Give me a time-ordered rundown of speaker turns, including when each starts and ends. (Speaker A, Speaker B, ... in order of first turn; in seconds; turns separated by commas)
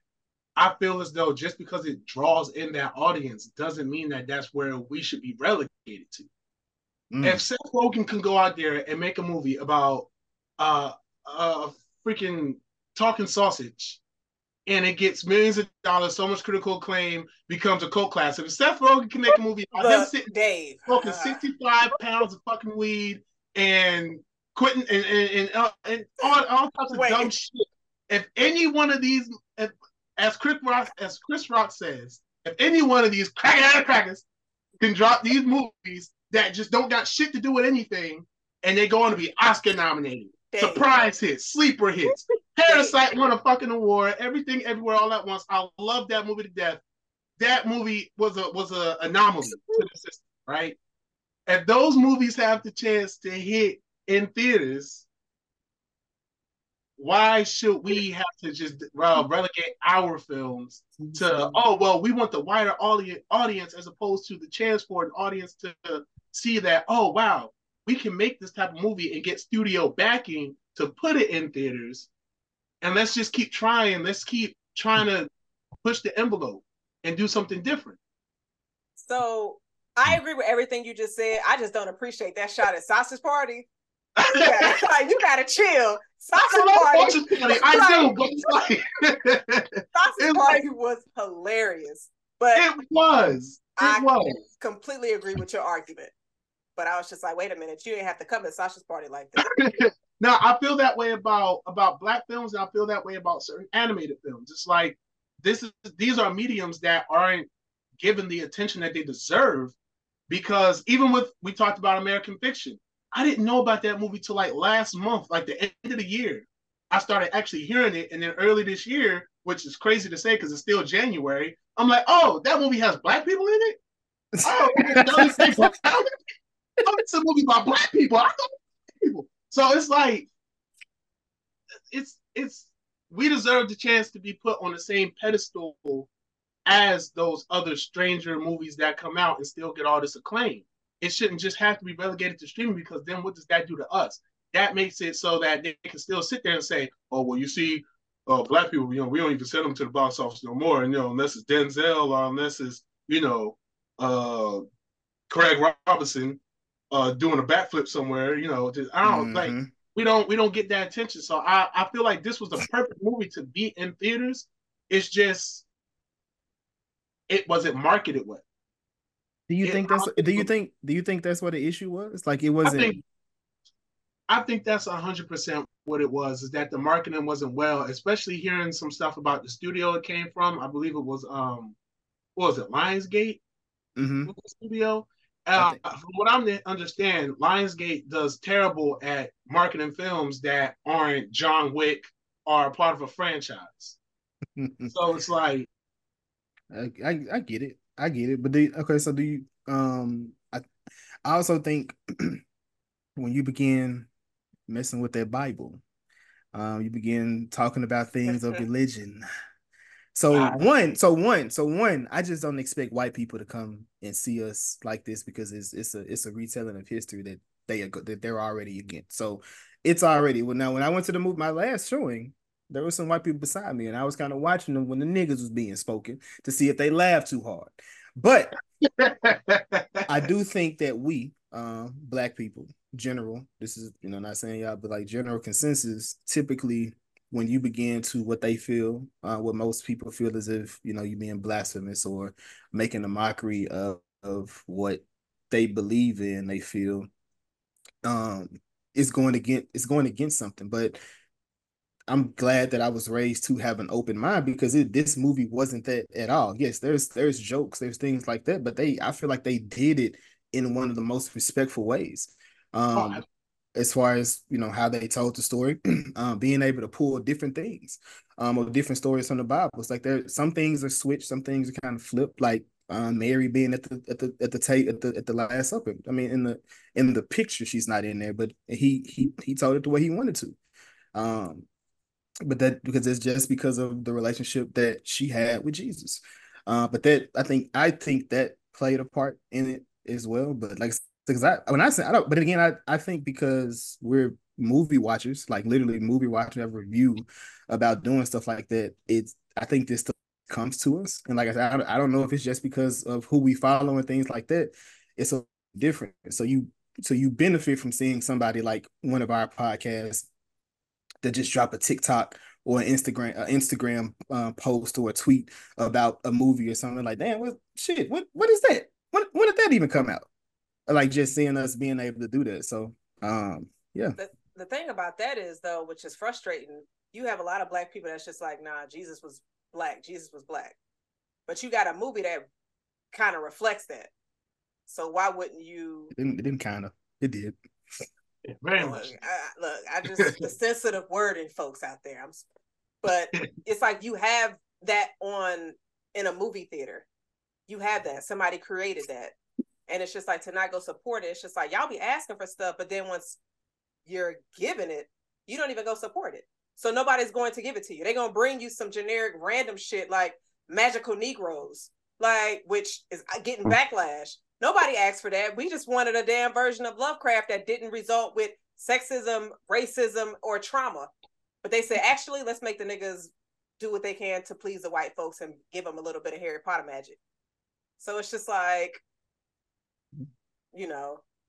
Speaker A: 0.6-6.3, Speaker B: 7.1-7.4, Speaker A: 7.2-14.0, Speaker A: 14.7-20.3, Speaker C: 19.7-21.4, Speaker A: 20.9-34.2, Speaker C: 26.9-27.3, Speaker A: 34.8-46.8, Speaker C: 40.5-40.9, Speaker C: 42.1-43.0, Speaker A: 47.4-50.8, Speaker A: 51.5-55.1, Speaker A: 57.0-72.1, Speaker B: 61.0-61.6, Speaker A: 72.8-75.3, Speaker A: 75.8-78.0, Speaker C: 79.0-83.7, Speaker A: 84.2-84.8, Speaker C: 84.2-88.2, Speaker A: 86.3-90.6, Speaker C: 90.0-92.7, Speaker A: 92.5-94.3, Speaker C: 93.8-96.1, Speaker C: 96.8-99.5, Speaker A: 99.4-109.8, Speaker A: 110.3-123.8, Speaker B: 124.3-125.8, Speaker A: 124.4-126.1, Speaker A: 126.8-128.3, Speaker A: 129.0-130.3, Speaker A: 131.9-136.1, Speaker A: 136.7-154.6, Speaker A: 155.3-156.4, Speaker A: 156.9-165.7, Speaker B: 159.0-159.7, Speaker A: 167.3-168.4, Speaker B: 169.5-173.0, Speaker A: 169.6-170.5, Speaker A: 172.6-173.0, Speaker A: 174.3-181.8, Speaker A: 182.4-183.4, Speaker B: 184.0-184.3, Speaker A: 184.3-194.0, Speaker B: 185.6-185.8, Speaker B: 194.6-195.0, Speaker A: 194.9-195.7, Speaker B: 196.7-200.6, Speaker B: 201.2-202.4, Speaker B: 203.2-204.1, Speaker B: 204.7-205.8, Speaker B: 206.5-209.2, Speaker C: 208.3-208.6, Speaker B: 210.2-228.5, Speaker A: 210.3-210.7, Speaker A: 229.0-230.1, Speaker B: 230.1-247.1, Speaker B: 248.1-251.0, Speaker B: 252.1-263.2, Speaker A: 262.9-263.2, Speaker B: 263.8-280.6, Speaker B: 281.1-281.7, Speaker B: 282.4-310.3, Speaker B: 311.2-320.3, Speaker B: 320.9-324.2, Speaker C: 324.2-330.8, Speaker C: 331.5-332.5, Speaker C: 333.1-334.1, Speaker C: 334.9-336.1, Speaker B: 336.1-337.6, Speaker A: 338.5-339.1, Speaker C: 338.8-342.5, Speaker A: 340.2-340.5, Speaker C: 343.0-347.1, Speaker C: 347.7-349.4, Speaker C: 349.9-353.4, Speaker C: 354.1-371.1, Speaker C: 371.6-377.2, Speaker C: 378.0-379.0, Speaker C: 380.7-381.2